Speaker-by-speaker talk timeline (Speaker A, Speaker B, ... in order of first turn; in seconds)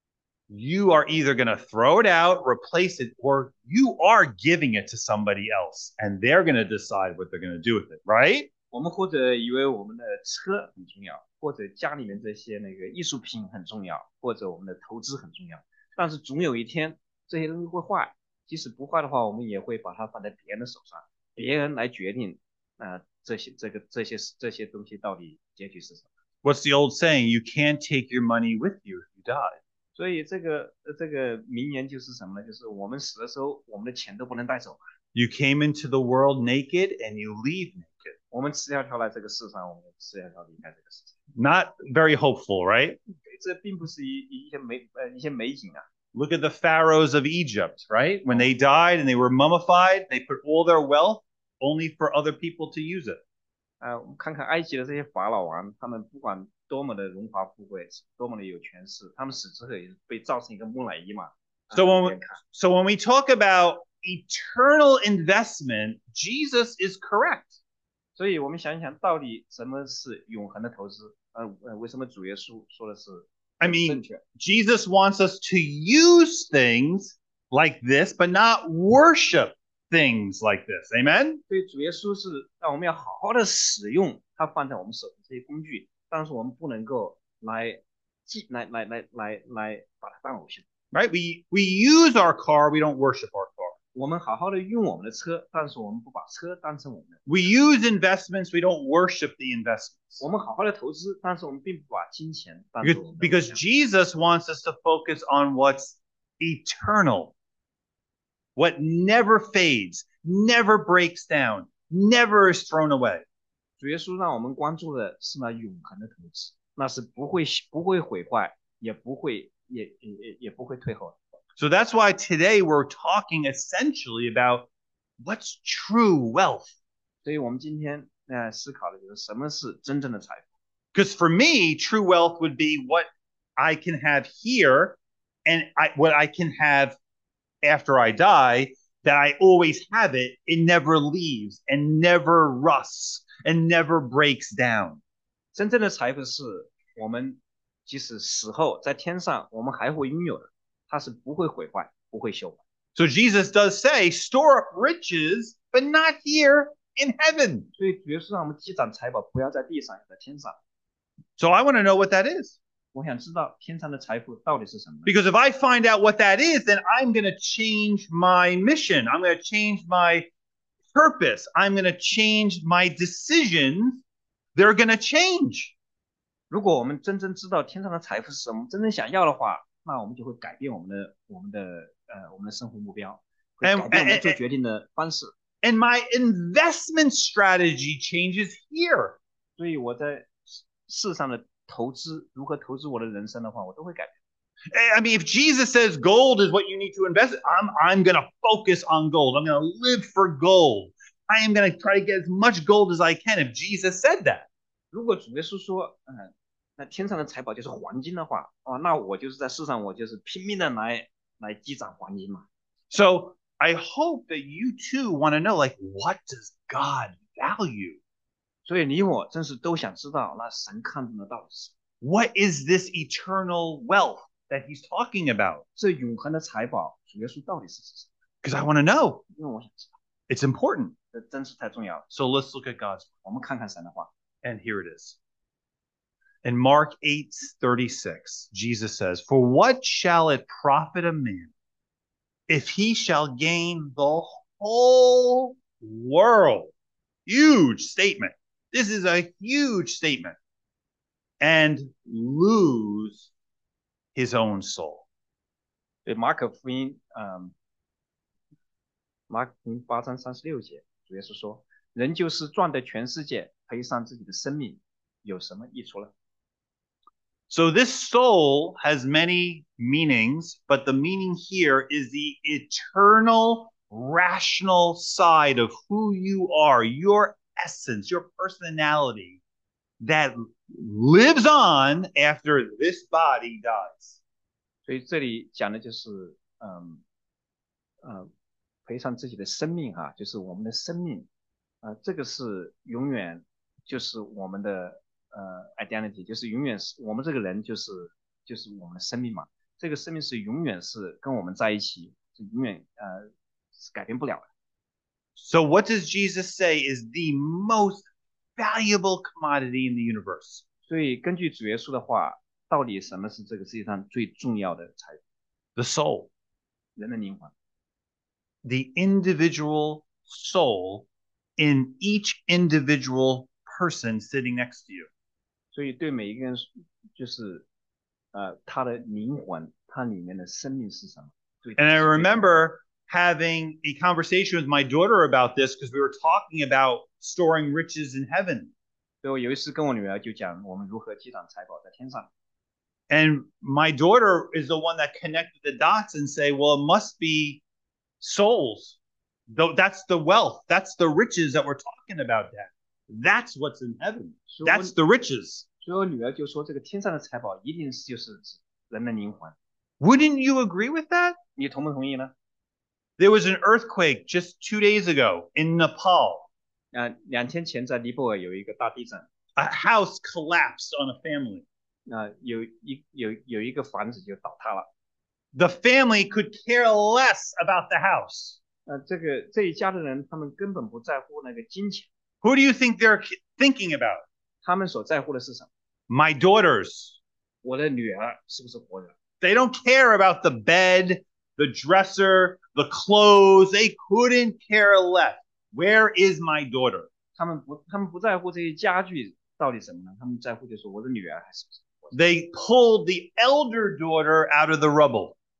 Speaker A: 0.5-8.5, 26.4-29.6, 35.1-38.1, 41.3-43.0, 46.1-53.2, 61.7-67.6, 73.6-81.4, 90.9-93.7, 97.2-100.2, 102.8-107.3, 108.5-113.2, 121.6-124.7, 125.2-126.7, 130.9-136.9, 137.6-145.0, 152.9-157.7, 161.4-162.6, 165.1-170.3, 170.9-174.0, 174.5-175.7, 183.6-184.4, 185.6-189.2, 194.7-204.5, 212.9-218.0, 222.0-225.6, 228.4-229.2, 230.3-230.9, 232.1-233.1, 234.4-235.2, 236.4-241.5, 242.5-246.7, 247.2-250.3, 251.4-253.3, 254.1-255.0, 267.5-279.4, 280.0-284.2, 305.4-308.1, 308.6-310.6, 315.8-316.3, 318.6-325.1, 331.8-338.7, 343.1-347.6, 348.2-348.9, 349.5-355.6, 360.0-361.4, 363.2-366.5, 369.6-371.6, 375.5-378.6, 382.4-384.2, 386.1-387.2, 389.4-397.1, 402.1-405.4
Speaker B: 8.7-26.1, 29.9-34.8, 38.3-41.1, 43.2-45.8, 53.8-62.4, 68.2-74.2, 81.5-90.6, 93.9-97.5, 100.2-103.6, 113.8-121.2, 127.2-130.5, 145.5-152.6, 157.8-160.6, 162.9-165.1, 176.5-185.3, 189.6-194.1, 204.9-212.4, 218.7-221.7, 225.8-228.1, 229.3-229.9, 231.1-232.1, 233.2-234.1, 256.0-257.5, 259.3-266.1, 284.8-287.0, 288.0-288.3, 288.9-291.3, 291.8-304.5, 310.9-315.2, 317.0-317.5, 325.7-327.6, 328.3-332.4, 339.2-342.3, 354.5-354.9, 355.8-359.5, 361.6-362.3, 366.9-369.3, 372.1-374.9, 378.9-382.1, 384.6-385.7, 387.6-389.1, 397.4-402.1